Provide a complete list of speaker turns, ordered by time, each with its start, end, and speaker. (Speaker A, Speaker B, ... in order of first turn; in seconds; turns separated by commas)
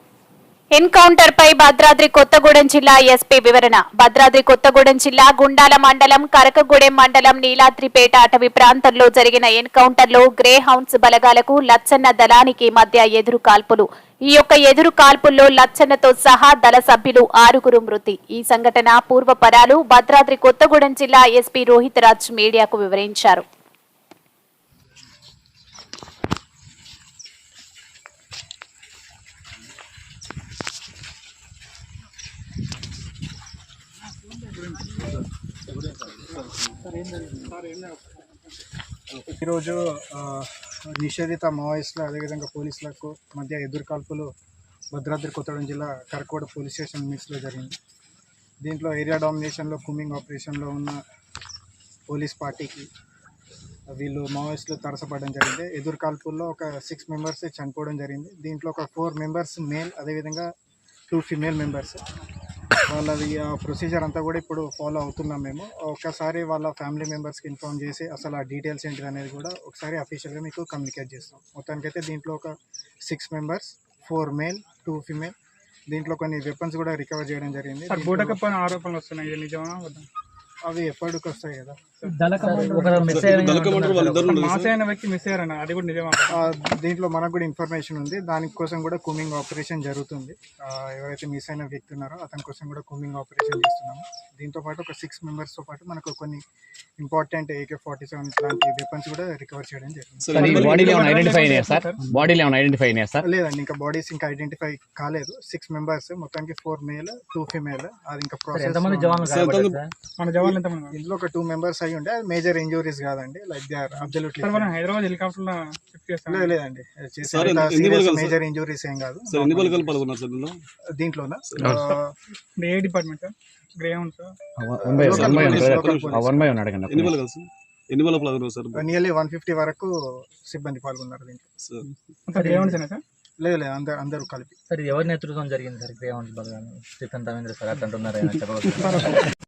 Speaker A: 0.8-23.4, Speaker B: 37.0-38.0, Speaker C: 39.3-44.3, Speaker C: 44.9-47.8, Speaker C: 48.6-51.0, Speaker C: 52.1-52.9, Speaker C: 53.9-60.5, Speaker C: 61.1-62.0, Speaker C: 62.9-72.5, Speaker C: 73.0-75.3, Speaker C: 75.9-78.4, Speaker B: 77.9-80.1, Speaker C: 80.7-81.9, Speaker B: 82.0-83.1, Speaker D: 82.1-84.4, Speaker E: 83.1-84.8, Speaker B: 84.2-86.5, Speaker C: 86.3-96.4, Speaker C: 97.0-100.6, Speaker E: 100.2-100.8, Speaker D: 100.3-100.7, Speaker F: 100.4-103.2, Speaker B: 100.5-102.0, Speaker C: 103.2-109.3, Speaker D: 108.5-109.9, Speaker E: 109.3-109.8, Speaker B: 110.2-111.0, Speaker C: 110.5-114.7, Speaker B: 114.4-116.5, Speaker C: 116.3-120.0, Speaker E: 117.3-118.4, Speaker E: 119.3-120.6, Speaker C: 121.0-122.1, Speaker E: 121.5-121.8, Speaker B: 121.7-122.0, Speaker B: 122.6-124.3, Speaker F: 124.6-127.2, Speaker C: 124.8-126.5, Speaker E: 125.0-126.2, Speaker E: 126.9-128.9, Speaker C: 128.8-131.5, Speaker E: 131.6-131.9, Speaker B: 132.3-133.0, Speaker D: 132.3-132.8, Speaker C: 133.4-134.5, Speaker D: 134.7-139.2